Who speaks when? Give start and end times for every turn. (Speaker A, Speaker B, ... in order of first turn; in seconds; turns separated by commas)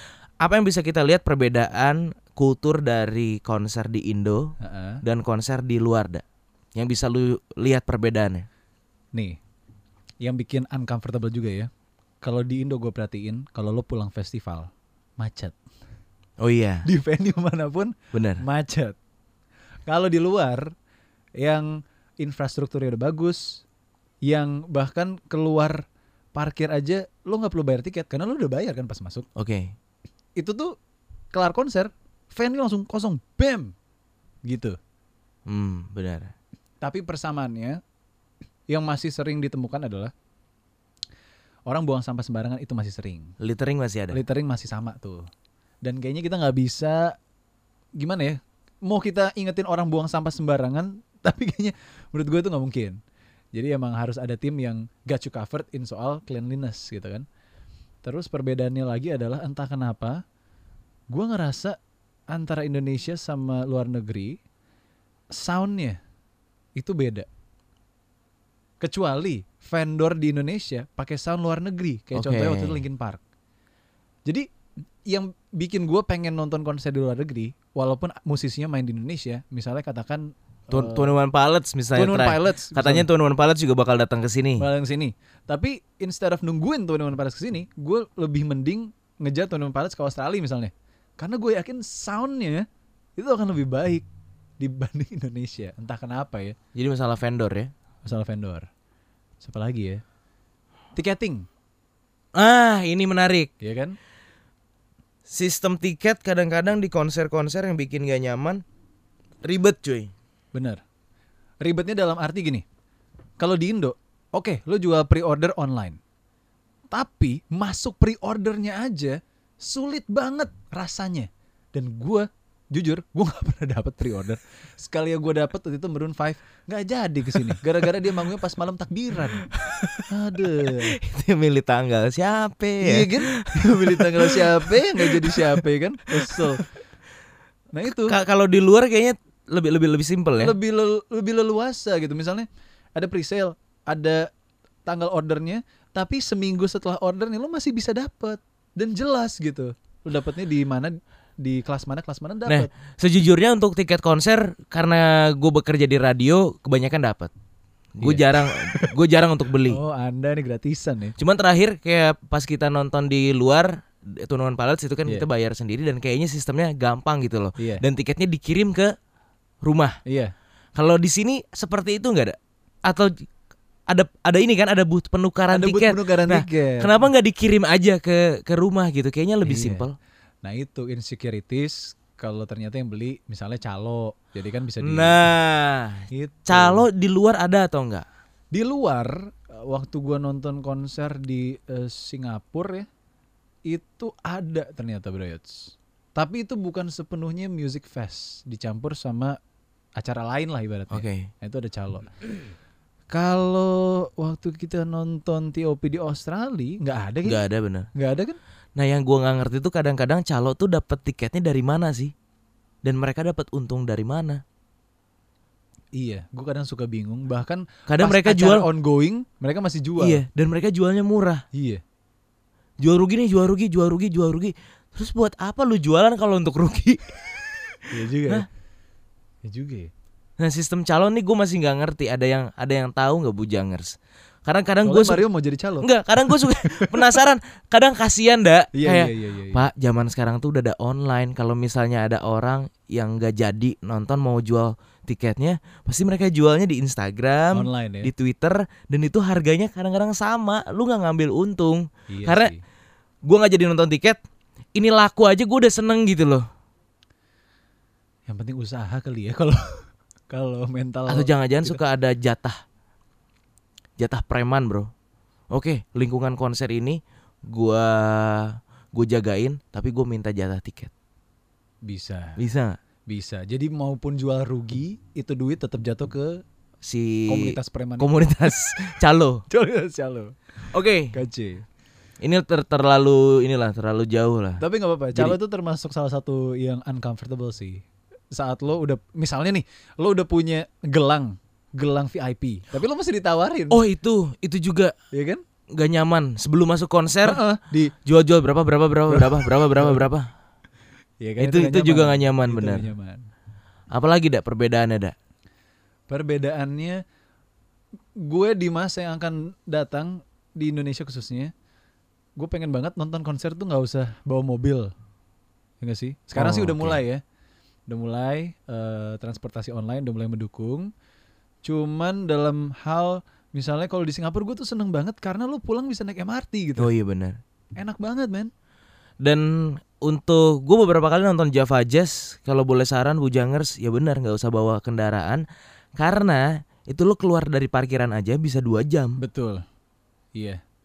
Speaker A: 0.4-6.2, Speaker B: 4.6-5.0, Speaker A: 6.7-8.5, Speaker B: 9.1-9.4, Speaker B: 10.2-11.7, Speaker B: 12.2-15.6, Speaker A: 16.4-16.9, Speaker B: 16.9-18.9, Speaker A: 18.1-18.4, Speaker B: 19.9-20.7, Speaker B: 21.4-23.6, Speaker B: 24.2-29.2, Speaker A: 29.4-29.8, Speaker B: 30.4-30.7, Speaker B: 31.3-33.7, Speaker B: 34.5-34.8, Speaker A: 35.5-36.3, Speaker B: 36.8-37.8, Speaker B: 38.7-40.1, Speaker B: 41.7-43.3, Speaker A: 43.4-44.2, Speaker B: 44.1-45.3, Speaker B: 45.8-47.2, Speaker B: 48.0-53.0, Speaker B: 53.5-57.2, Speaker B: 58.0-60.2, Speaker B: 61.1-61.8, Speaker B: 62.3-64.4, Speaker B: 65.3-66.0, Speaker B: 66.8-67.3, Speaker B: 68.8-73.2, Speaker A: 72.1-72.8, Speaker B: 75.1-81.2, Speaker A: 80.7-84.7, Speaker B: 81.9-83.1, Speaker B: 84.6-92.7, Speaker B: 93.2-94.0, Speaker B: 94.6-96.5, Speaker A: 96.7-97.7, Speaker B: 98.0-98.7, Speaker B: 99.4-100.0, Speaker B: 100.9-101.5, Speaker A: 102.3-103.5, Speaker B: 103.6-104.0, Speaker A: 105.3-108.6, Speaker A: 109.4-110.1, Speaker B: 110.5-110.8, Speaker B: 111.6-112.6, Speaker B: 113.4-116.0, Speaker B: 116.9-129.4, Speaker A: 129.4-130.0, Speaker B: 130.1-131.0, Speaker A: 130.6-135.6, Speaker B: 132.8-136.6, Speaker A: 136.2-136.5, Speaker B: 137.7-138.2, Speaker A: 137.9-140.5, Speaker B: 140.4-144.3, Speaker B: 144.8-152.7, Speaker A: 152.4-157.3, Speaker A: 158.0-159.8, Speaker B: 158.0-158.9, Speaker B: 159.7-161.1, Speaker A: 161.2-168.9, Speaker B: 167.6-167.8, Speaker A: 169.6-170.0, Speaker B: 170.1-170.3, Speaker A: 170.8-173.2, Speaker A: 173.9-179.9, Speaker B: 175.5-177.1, Speaker B: 179.4-179.8, Speaker B: 180.4-185.2, Speaker A: 184.8-188.1, Speaker B: 186.1-186.9, Speaker B: 188.5-192.9, Speaker B: 193.7-199.4, Speaker B: 200.0-202.1, Speaker A: 200.9-201.3, Speaker B: 203.1-208.4, Speaker A: 207.2-207.9, Speaker A: 208.8-212.1, Speaker A: 212.8-214.4, Speaker B: 215.9-220.2, Speaker A: 217.9-218.7, Speaker A: 220.0-221.4, Speaker B: 221.5-221.8, Speaker A: 222.8-228.4, Speaker B: 227.9-228.5, Speaker B: 229.4-229.9, Speaker A: 230.4-235.2, Speaker B: 234.8-237.2, Speaker A: 235.8-252.5, Speaker B: 238.7-239.6, Speaker B: 247.5-248.1, Speaker B: 252.1-252.6, Speaker A: 253.2-254.2, Speaker A: 254.8-256.4, Speaker B: 258.3-261.8, Speaker A: 261.1-262.6, Speaker A: 264.0-264.9, Speaker A: 265.5-270.9, Speaker B: 271.8-272.4, Speaker A: 272.4-272.8, Speaker B: 273.1-276.4, Speaker A: 276.8-279.4, Speaker B: 277.3-278.6, Speaker B: 279.5-280.3, Speaker A: 280.7-281.2, Speaker B: 281.1-281.6, Speaker A: 282.2-284.6, Speaker B: 284.6-293.8, Speaker A: 293.7-294.9, Speaker B: 295.1-295.4, Speaker A: 295.7-297.4, Speaker B: 297.2-297.9, Speaker A: 298.0-300.3, Speaker B: 299.1-300.0, Speaker B: 301.2-303.3, Speaker A: 301.4-302.9, Speaker A: 303.9-305.1, Speaker B: 306.1-307.0, Speaker B: 308.2-311.5, Speaker B: 312.4-314.9, Speaker B: 315.8-317.2, Speaker A: 316.3-317.0, Speaker B: 317.9-320.9, Speaker B: 321.6-326.9, Speaker A: 326.8-327.4, Speaker B: 327.8-328.5, Speaker A: 329.2-335.4, Speaker A: 335.9-339.2, Speaker B: 339.2-339.6, Speaker B: 340.3-340.6